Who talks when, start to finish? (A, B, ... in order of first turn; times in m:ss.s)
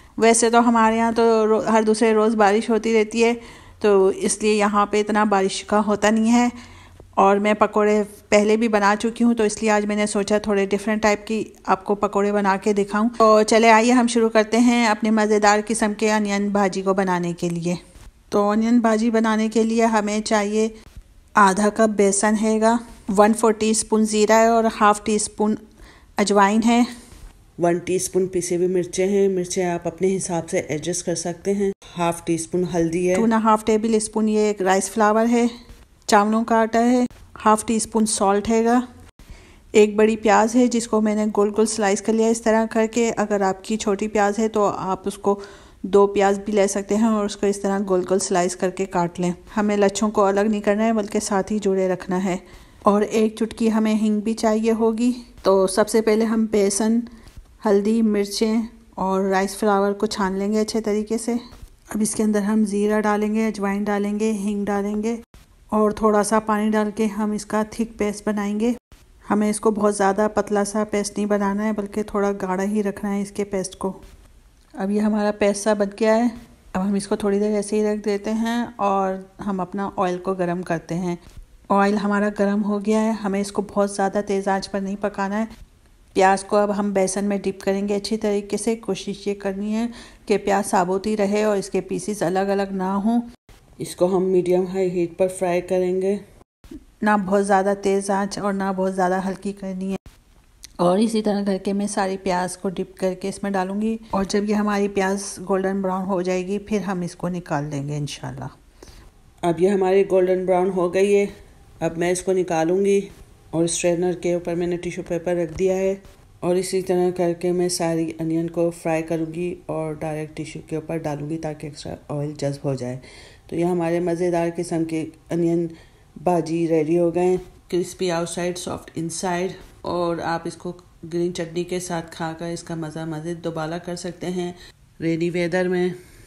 0:00.2-0:06.5 A
0:07.2-0:17.8 A
0:18.3-0:20.7 A
0:21.4-0:25.6 A
0:26.2-0:26.9 A
0:27.6-0:33.3 B
0:33.1-0:35.5 A
0:36.1-0:38.8 A
0:39.8-0:57.0 A
0:57.6-1:01.4 A
1:01.9-1:05.2 A
1:05.7-1:08.7 A
1:09.3-1:14.0 A
1:14.8-1:21.2 A
1:21.7-1:25.5 A
1:26.1-1:33.2 A
1:33.8-1:36.2 B
1:37.0-1:40.0 A
1:40.8-1:48.5 A
1:49.4-1:51.3 B
1:51.8-2:15.9 B